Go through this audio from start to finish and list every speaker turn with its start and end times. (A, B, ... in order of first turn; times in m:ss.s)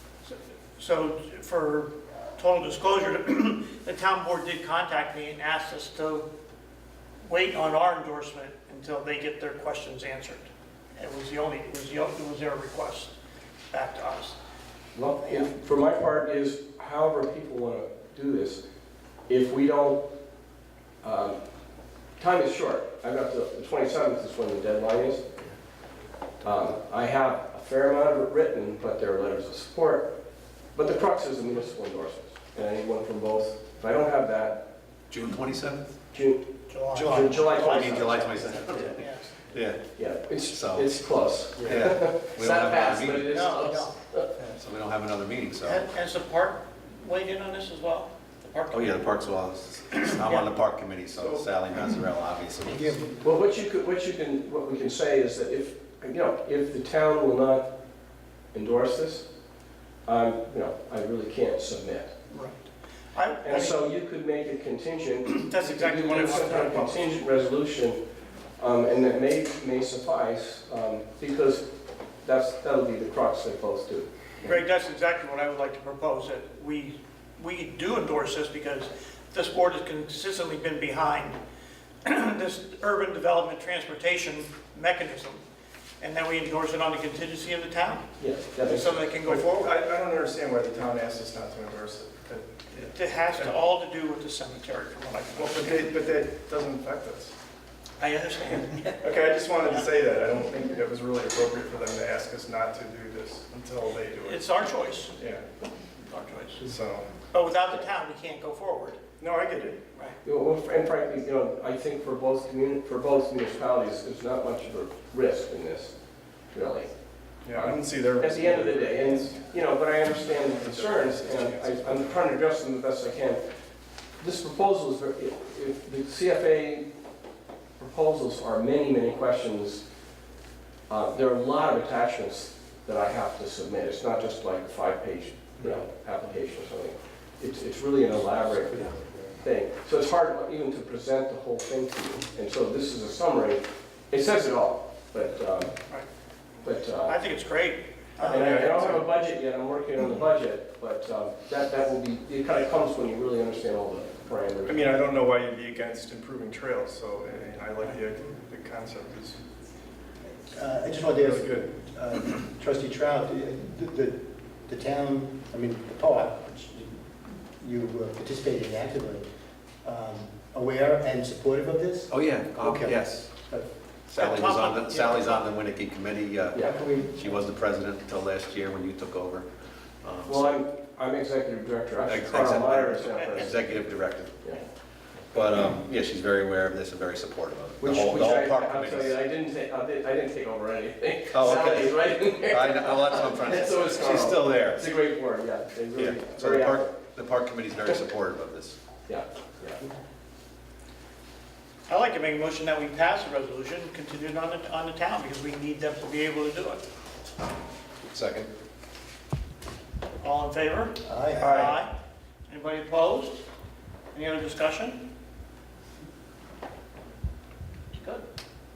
0:00.2-0:06.3 A
0:07.2-0:13.2 A
0:13.7-0:14.4 A
0:14.9-0:18.6 B
0:15.2-0:15.5 A
0:19.3-0:20.0 B
0:21.0-0:21.4 B
0:22.2-0:25.3 B
0:26.4-0:30.1 B
0:30.7-0:34.6 B
0:35.1-0:35.9 C
0:36.1-0:38.3 B
0:36.7-0:39.3 A
0:37.5-0:39.8 C
0:37.8-0:38.4 D
0:39.9-0:44.3 B
0:40.5-0:40.9 C
0:41.6-0:43.3 C
0:43.3-0:44.0 A
0:44.6-0:45.8 C
0:45.6-0:49.1 A
0:48.7-0:53.0 C
0:50.1-0:50.5 A
0:52.6-0:53.3 D
0:53.2-0:57.7 B
0:58.5-0:59.3 B
1:00.0-1:02.1 B
1:02.3-1:03.8 A
1:03.4-1:08.0 B
1:05.3-1:07.1 A
1:08.6-1:11.6 B
1:12.2-1:14.6 B
1:14.4-1:21.4 A
1:22.0-1:25.4 A
1:26.0-1:29.7 A
1:28.2-1:29.0 B
1:29.1-1:33.6 E
1:32.9-1:35.9 A
1:35.3-1:37.3 E
1:38.0-1:39.8 A
1:39.0-1:44.4 E
1:44.1-1:45.1 A
1:45.1-1:45.5 E
1:46.0-1:46.6 A
1:46.6-1:47.1 E
1:47.3-1:49.0 A
1:49.2-1:49.8 E
1:50.2-2:03.4 B
1:57.4-1:59.5 E
2:00.2-2:02.2 E
2:04.2-2:06.9 B
2:07.8-2:09.9 B
2:10.9-2:25.8 B
2:18.8-2:19.3 D
2:26.6-2:27.2 B
2:27.0-2:28.8 A
2:28.2-2:35.0 B
2:28.2-2:29.0 E
2:34.6-2:39.4 E
2:40.5-2:49.3 D
2:41.0-2:41.7 E
2:49.8-2:53.7 D
2:52.1-2:53.3 C
2:54.1-2:59.5 C
2:54.2-2:55.4 A
2:56.6-2:57.3 D
3:00.0-3:00.5 C
3:00.3-3:03.5 B
3:02.1-3:04.4 C
3:03.0-3:03.6 A
3:05.3-3:09.2 C
3:07.8-3:17.0 B
3:11.3-3:14.8 C
3:16.0-3:18.8 C
3:19.1-3:19.8 B
3:21.9-3:26.8 A
3:28.0-3:28.5 C
3:30.2-3:31.9 A
3:31.0-3:31.6 D
3:31.4-3:31.8 B
3:32.5-3:33.4 A
3:34.1-3:35.0 A
3:37.9-3:38.2 A